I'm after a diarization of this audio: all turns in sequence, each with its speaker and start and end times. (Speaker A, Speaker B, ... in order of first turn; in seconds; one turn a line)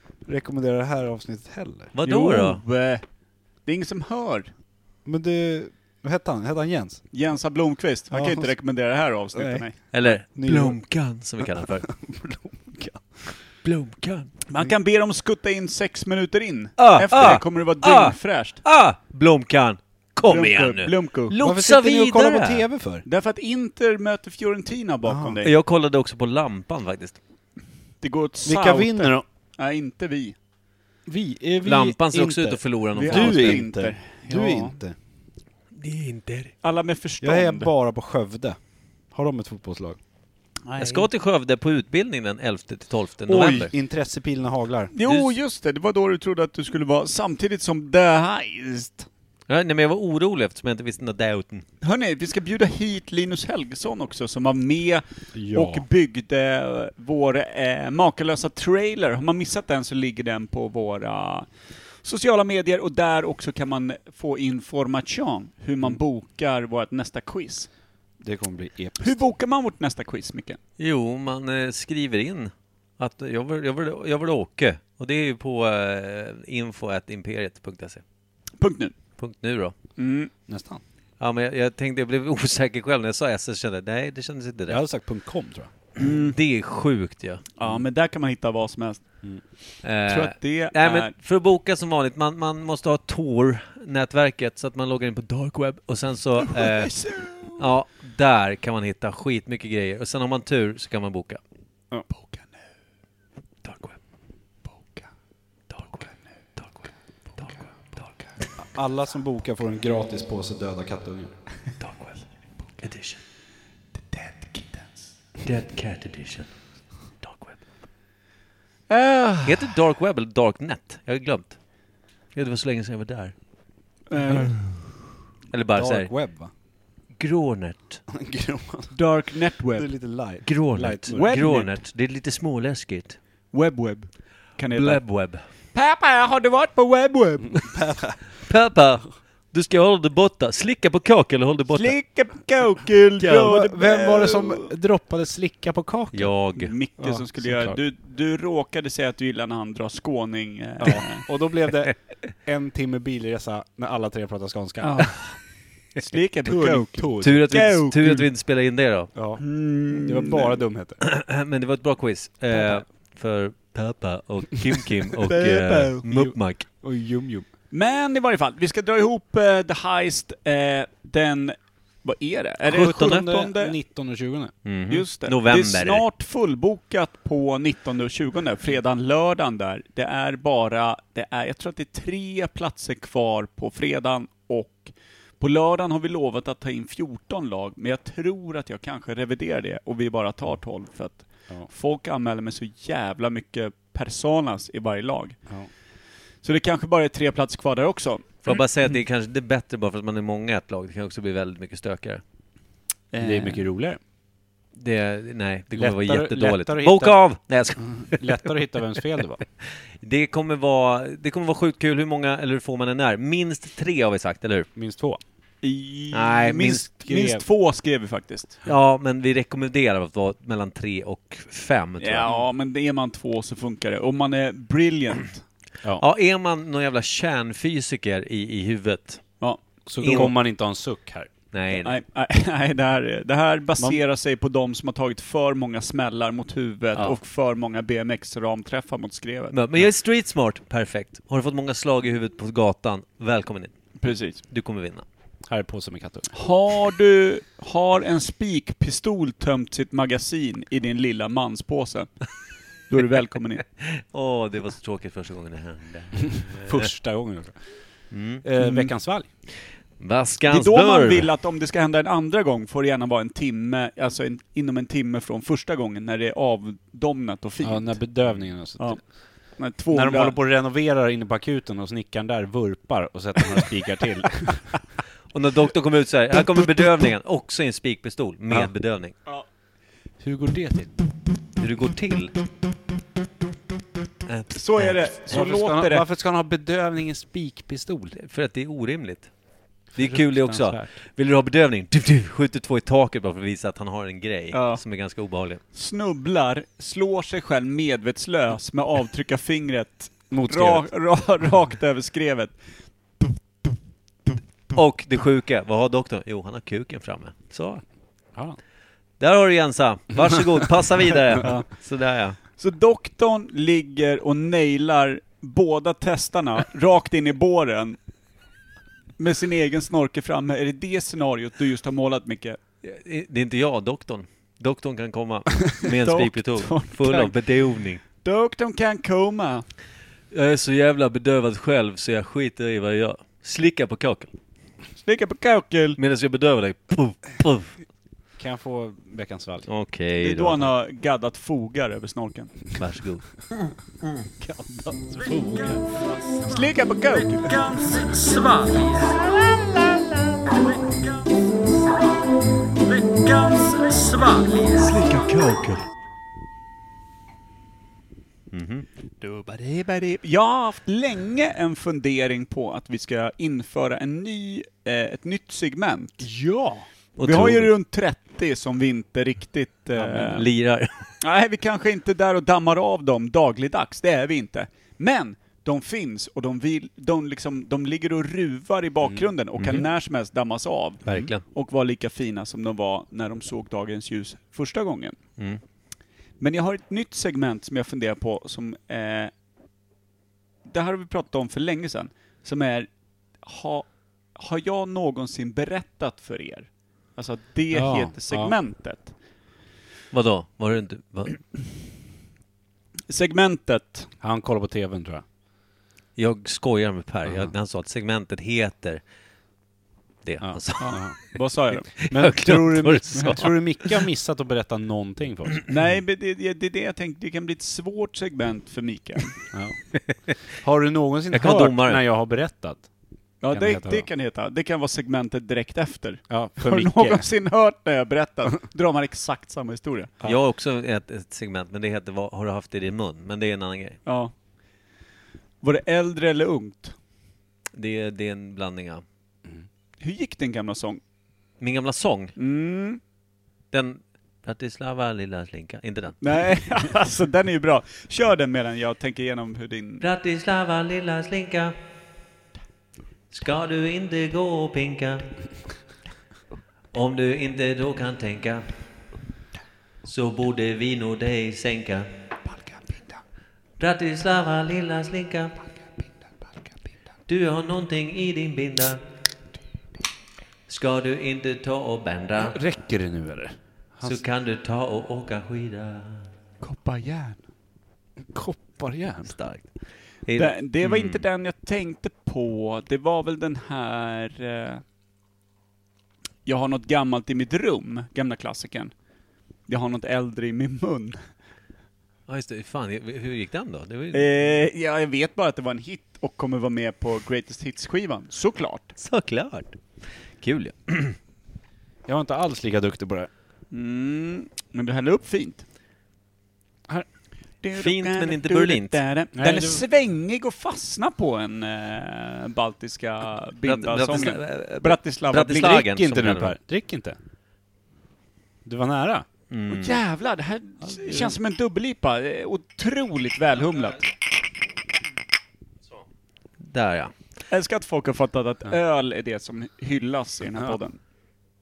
Speaker A: 0.2-1.9
Speaker B: 1.9-2.6
Speaker C: 2.0-3.0
Speaker C: 3.6-4.5
Speaker A: 5.0-7.0
Speaker C: 7.1-9.9
Speaker A: 8.1-8.5
Speaker A: 9.3-13.2
Speaker B: 9.9-11.9
Speaker B: 13.6-14.3
Speaker C: 14.5-18.6
Speaker B: 16.8-22.6
Speaker C: 20.3-21.3
Speaker A: 21.4-23.1
Speaker C: 23.1-25.5
Speaker A: 25.0-25.4
Speaker B: 25.4-27.2
Speaker C: 28.0-30.4
Speaker A: 28.4-29.2
Speaker A: 31.1-35.0
Speaker B: 31.6-33.6
Speaker C: 33.0-34.8
Speaker B: 35.8-36.5
Speaker C: 36.6-37.7
Speaker A: 37.2-38.6
Speaker A: 39.1-40.0
Speaker C: 40.7-41.1
Speaker B: 40.8-43.7
Speaker A: 43.3-44.9
Speaker C: 44.9-49.1
Speaker B: 45.0-45.3
Speaker B: 49.5-51.6
Speaker C: 51.8-61.5
Speaker A: 55.3-55.9
Speaker C: 62.0-67.7
Speaker A: 68.2-69.2
Speaker C: 69.0-70.6
Speaker B: 70.8-78.0
Speaker C: 78.6-79.0
Speaker B: 79.2-79.8
Speaker C: 80.0-80.3
Speaker A: 80.5-80.8
Speaker B: 81.2-84.8
Speaker A: 84.7-85.7
Speaker C: 86.0-86.4
Speaker B: 86.3-87.4
Speaker C: 87.6-89.0
Speaker B: 89.8-97.0
Speaker C: 90.1-91.1
Speaker C: 96.4-97.7
Speaker B: 97.6-101.4
Speaker C: 102.1-102.5
Speaker B: 103.6-104.0
Speaker C: 104.7-105.1
Speaker B: 105.7-106.0
Speaker C: 105.9-106.2
Speaker B: 107.4-108.0
Speaker C: 107.4-108.2
Speaker A: 108.7-111.3
Speaker B: 111.8-112.2
Speaker B: 112.8-113.2
Speaker C: 114.1-115.0
Speaker B: 115.5-116.6
Speaker B: 117.2-117.6
Speaker C: 118.9-119.7
Speaker B: 119.5-121.6
Speaker B: 122.3-123.3
Speaker C: 124.1-124.7
Speaker A: 124.2-124.5
Speaker B: 125.5-126.1
Speaker A: 125.7-126.5
Speaker B: 127.2-128.0
Speaker A: 128.1-129.0
Speaker C: 128.9-129.9
Speaker A: 129.7-131.4
Speaker B: 130.4-133.2
Speaker C: 131.1-131.8
Speaker C: 133.5-135.1
Speaker B: 134.7-135.4
Speaker C: 135.7-137.9
Speaker A: 137.4-138.2
Speaker B: 138.4-142.0
Speaker C: 141.7-144.7
Speaker A: 143.2-146.4
Speaker B: 146.1-146.7
Speaker C: 146.6-151.3
Speaker A: 147.0-147.8
Speaker A: 150.8-155.2
Speaker C: 154.8-155.4
Speaker C: 155.9-158.2
Speaker A: 156.4-158.2
Speaker B: 157.2-159.1
Speaker A: 159.1-161.0
Speaker C: 159.4-160.6
Speaker B: 161.0-166.7
Speaker A: 162.5-162.8
Speaker C: 165.2-166.3
Speaker A: 166.1-167.5
Speaker C: 167.7-173.8
Speaker B: 172.7-173.3
Speaker A: 172.7-174.5
Speaker B: 174.6-176.0
Speaker C: 174.9-195.4
Speaker C: 196.4-198.6
Speaker B: 198.4-202.2
Speaker C: 203.1-203.7
Speaker A: 203.2-204.0
Speaker B: 204.8-208.5
Speaker A: 205.7-207.2
Speaker A: 207.8-209.4
Speaker B: 210.0-214.7
Speaker A: 214.8-215.2
Speaker C: 215.6-218.6
Speaker B: 216.1-216.9
Speaker A: 217.1-217.4
Speaker B: 218.6-222.3
Speaker C: 222.0-225.5
Speaker B: 226.0-229.3
Speaker C: 229.4-230.3
Speaker A: 229.9-231.3
Speaker B: 230.0-230.3
Speaker B: 231.5-232.0
Speaker C: 231.7-239.6
Speaker B: 239.5-243.7
Speaker C: 244.0-244.4
Speaker B: 244.5-245.1
Speaker A: 245.5-246.3
Speaker C: 246.3-252.3
Speaker C: 252.9-253.6
Speaker B: 253.8-256.9
Speaker A: 256.3-257.6
Speaker B: 258.1-258.4
Speaker A: 258.4-259.3
Speaker C: 258.6-258.9
Speaker B: 259.5-261.3
Speaker C: 260.5-268.1
Speaker A: 267.6-269.0
Speaker C: 268.8-270.4
Speaker A: 269.9-274.7
Speaker B: 275.3-279.1
Speaker A: 280.2-280.9
Speaker B: 281.6-282.4
Speaker B: 284.3-285.0
Speaker C: 284.5-286.1
Speaker A: 285.3-288.1
Speaker B: 288.1-289.3
Speaker B: 289.9-295.6
Speaker A: 289.9-290.9
Speaker C: 294.5-294.8
Speaker C: 295.7-302.6
Speaker A: 300.3-300.9
Speaker C: 303.2-303.7
Speaker B: 304.7-307.8
Speaker B: 309.2-312.4
Speaker C: 311.4-311.7
Speaker C: 312.4-318.0
Speaker C: 319.2-322.6
Speaker B: 322.8-328.0
Speaker C: 325.9-329.6
Speaker B: 330.3-334.3
Speaker C: 335.0-336.0
Speaker B: 336.0-337.8
Speaker A: 338.4-339.7
Speaker B: 339.7-340.7
Speaker C: 340.2-342.8
Speaker B: 342.8-343.2
Speaker A: 344.4-345.9
Speaker C: 346.5-348.1
Speaker C: 353.5-355.8
Speaker B: 358.5-358.9
Speaker C: 359.2-370.5
Speaker B: 367.2-367.7
Speaker B: 370.0-371.1
Speaker C: 371.2-385.2
Speaker B: 379.6-379.8
Speaker B: 381.1-381.4
Speaker C: 386.4-389.3
Speaker C: 390.7-392.9
Speaker C: 393.4-399.1
Speaker A: 397.7-398.6
Speaker B: 400.1-401.4
Speaker C: 403.1-404.1
Speaker A: 404.2-405.2
Speaker B: 406.2-409.0
Speaker A: 407.3-407.5
Speaker B: 410.2-411.1
Speaker A: 410.4-411.2
Speaker C: 410.8-411.9
Speaker A: 411.9-415.7
Speaker B: 412.0-413.5
Speaker C: 413.2-413.5
Speaker C: 415.7-419.4
Speaker A: 419.5-419.8
Speaker B: 419.9-420.4
Speaker A: 420.5-422.9
Speaker B: 421.3-422.0
Speaker C: 423.4-430.1
Speaker A: 423.5-424.1
Speaker A: 426.3-427.3
Speaker B: 430.2-434.0
Speaker C: 434.1-434.3
Speaker C: 435.6-436.9
Speaker B: 437.7-439.0
Speaker C: 440.0-441.0
Speaker B: 441.6-442.3
Speaker C: 442.4-443.0
Speaker B: 443.7-446.2
Speaker C: 446.2-450.0
Speaker B: 450.0-451.8
Speaker B: 453.3-455.3
Speaker B: 456.9-458.7
Speaker B: 460.1-462.1
Speaker B: 463.8-465.6
Speaker B: 467.3-469.0
Speaker B: 470.7-472.6
Speaker A: 472.4-474.2
Speaker B: 474.0-476.3
Speaker C: 476.6-477.4
Speaker A: 478.3-479.4
Speaker B: 479.3-481.2
Speaker C: 480.4-484.8
Speaker C: 486.5-488.9
Speaker C: 489.7-491.2
Speaker B: 492.3-494.5
Speaker C: 494.1-498.9
Speaker B: 499.0-499.8
Speaker B: 500.3-501.2
Speaker A: 502.1-503.3
Speaker C: 503.7-505.6
Speaker C: 507.6-515.9
Speaker B: 507.7-509.0
Speaker A: 509.4-509.8
Speaker B: 513.6-516.6
Speaker A: 515.6-517.2
Speaker A: 518.6-519.3
Speaker B: 519.5-520.0
Speaker C: 519.7-524.1
Speaker A: 520.9-521.3
Speaker B: 526.6-527.1
Speaker C: 527.5-531.0